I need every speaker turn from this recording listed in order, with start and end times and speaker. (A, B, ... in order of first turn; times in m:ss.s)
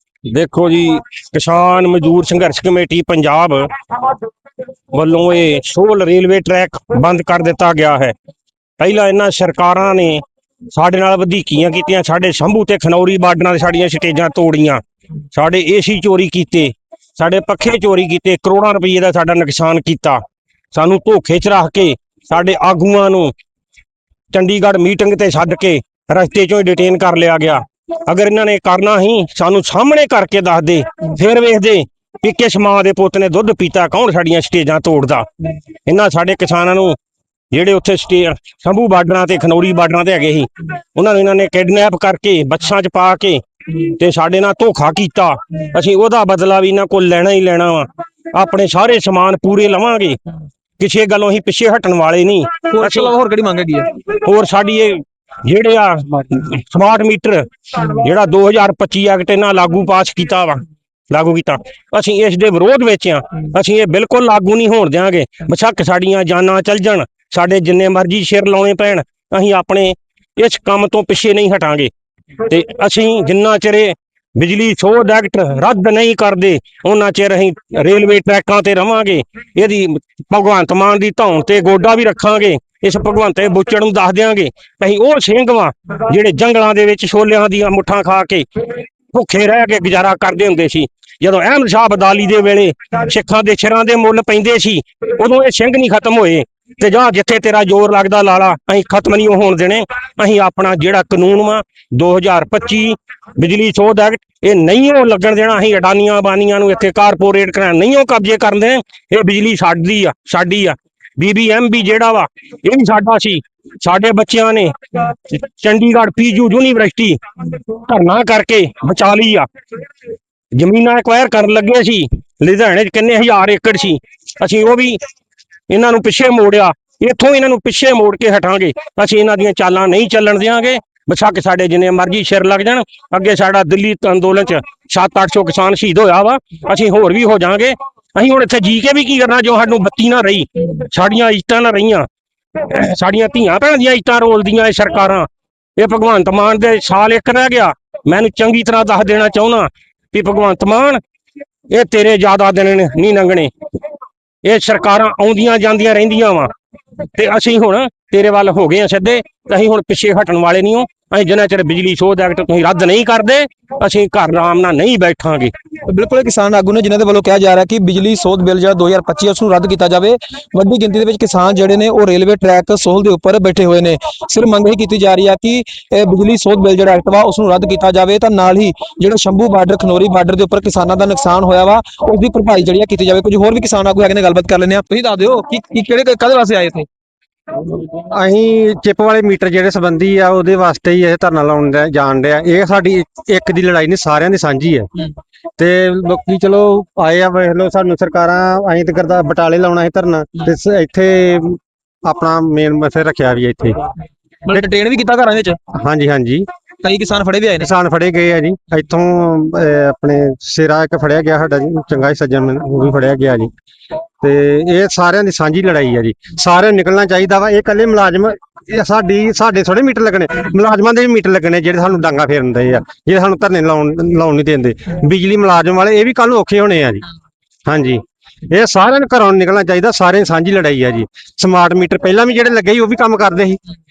0:00.3-0:03.7 A
0:04.9-0:08.1 A
0:08.8-0:14.8 A
0:15.3-0:20.2 A
0:20.7-0:23.3 A
0:24.3-0:35.2 A
0:35.9-0:37.0 A
0:37.5-0:50.2 A
0:50.8-0:53.1 A
0:52.7-0:53.9 B
0:54.2-1:11.9 A
1:12.4-1:59.4 A
2:00.5-2:05.0 A
2:05.7-2:31.0 A
2:31.7-2:33.5 A
2:34.4-2:36.5 A
2:37.1-2:45.5 A
2:45.9-3:06.8 B
3:07.6-3:14.9 C
3:15.6-3:23.9 C
3:24.5-3:25.6 B
3:25.8-3:26.4 C
3:26.8-3:27.7 B
3:27.6-3:33.5 C
3:34.2-3:47.1 C
3:47.6-3:53.6 C